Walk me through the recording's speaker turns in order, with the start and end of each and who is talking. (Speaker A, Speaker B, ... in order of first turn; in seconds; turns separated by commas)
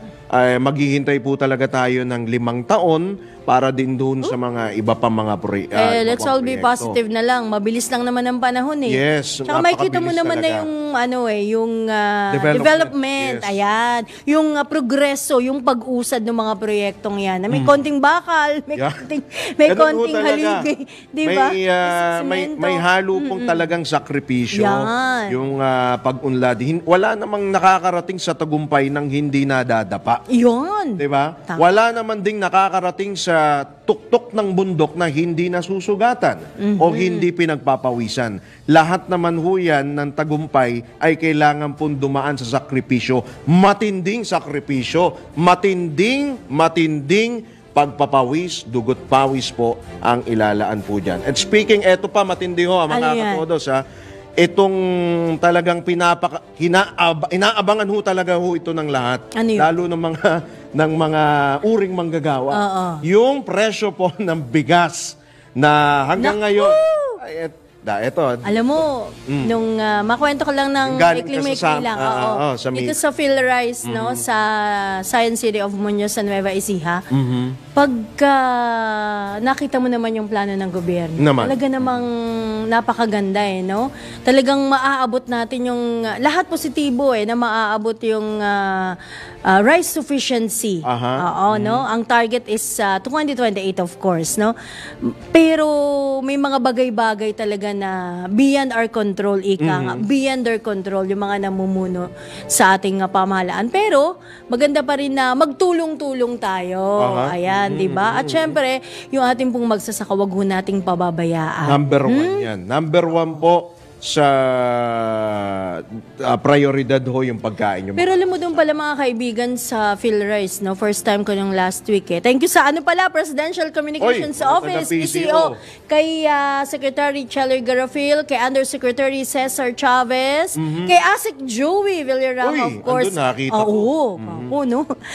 Speaker A: 0.3-7.0, Speaker B: 5.7-23.7, Speaker A: 8.9-10.7, Speaker A: 12.3-13.6, Speaker A: 17.5-17.8, Speaker A: 18.7-19.0, Speaker A: 19.6-20.6, Speaker A: 21.2-30.2, Speaker B: 24.5-25.4, Speaker B: 30.3-31.6, Speaker A: 31.0-53.8, Speaker B: 36.6-37.2, Speaker B: 52.9-53.4, Speaker A: 54.4-69.5, Speaker B: 59.4-59.7, Speaker B: 62.5-63.0, Speaker B: 66.2-67.2, Speaker B: 68.5-77.0, Speaker A: 70.8-73.0, Speaker A: 73.8-74.2, Speaker A: 77.1-77.6, Speaker B: 77.7-82.1, Speaker A: 81.2-82.0, Speaker B: 82.7-88.9, Speaker B: 89.5-94.5, Speaker A: 90.8-91.8, Speaker B: 95.3-95.7, Speaker B: 96.2-112.5, Speaker A: 99.6-100.0, Speaker A: 107.0-108.6, Speaker A: 111.7-118.1, Speaker B: 118.0-134.8, Speaker A: 124.0-125.6, Speaker A: 130.6-130.9, Speaker A: 132.4-134.5